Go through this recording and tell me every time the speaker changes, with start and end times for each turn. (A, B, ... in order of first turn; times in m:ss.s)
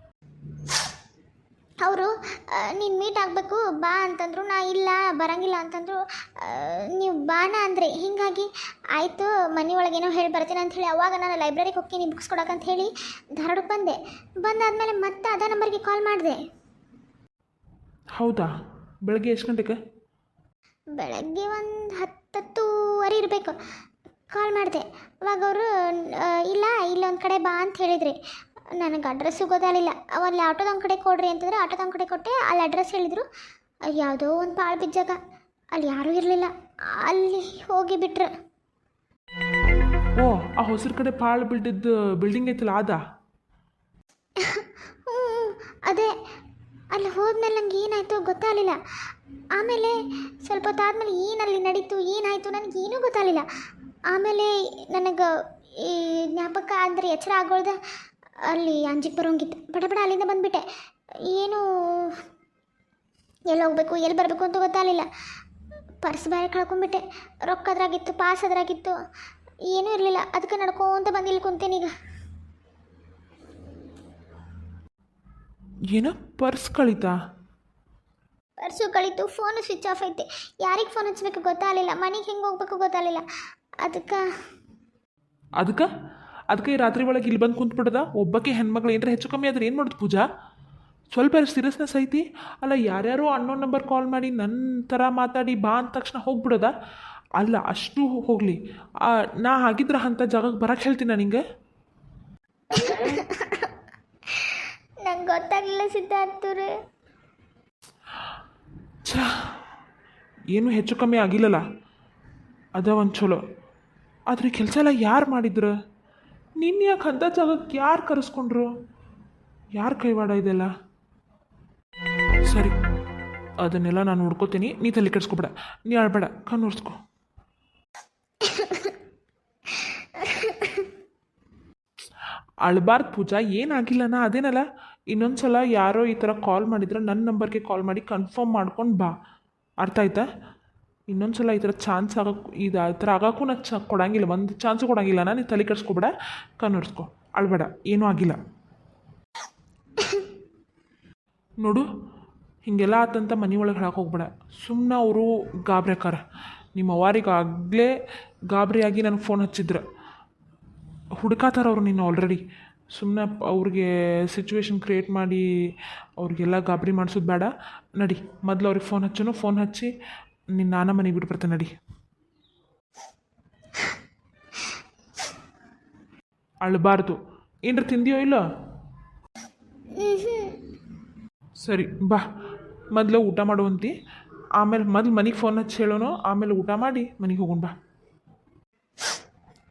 0:01.8-0:16.4 A
0:18.2-0:18.5 B
0:19.1-0:19.8 B
0:21.0-0:23.6 A
0:24.3-0:28.2 A
0:28.8-0:33.3 A
0:33.9-0:35.2 A
0:35.8-0:38.3 A
0:40.2-0:43.0 B
0:44.4-0:46.1 A
0:46.9-0:48.8 A
0:49.6-0:53.5 A
0:54.1-0:57.8 A
0:58.5-1:00.6 A
1:01.2-1:02.2 A
1:03.5-1:05.1 A
1:06.0-1:09.0 A
1:09.7-1:11.9 A
1:15.9-1:17.2 B
1:18.6-1:23.2 A
1:23.8-1:24.2 A
1:25.6-1:25.9 B
1:26.5-1:30.2 B
1:31.1-1:36.7 B
1:37.4-1:41.4 B
1:42.7-1:43.7 A
1:44.3-1:46.7 A
1:49.1-1:49.3 B
1:50.5-1:51.6 B
1:52.8-1:53.4 B
1:54.3-1:55.7 B
1:56.6-1:58.7 B
1:59.8-2:00.7 B
2:02.5-2:02.7 B
2:03.6-2:07.0 B
2:08.4-2:09.0 A
2:09.7-2:10.9 A
2:12.6-2:19.1 B
2:19.8-2:20.3 B
2:21.1-2:28.4 B
2:30.0-2:30.3 A
2:32.6-2:36.2 B
2:36.8-2:37.9 B
2:38.5-2:39.8 B
2:41.2-2:42.4 B
2:42.9-2:45.4 B
2:46.2-2:49.9 B
2:50.6-2:51.7 B
2:56.6-2:58.4 B
3:00.0-3:00.6 A
3:01.6-3:02.2 B
3:02.9-3:03.9 B
3:04.6-3:07.7 B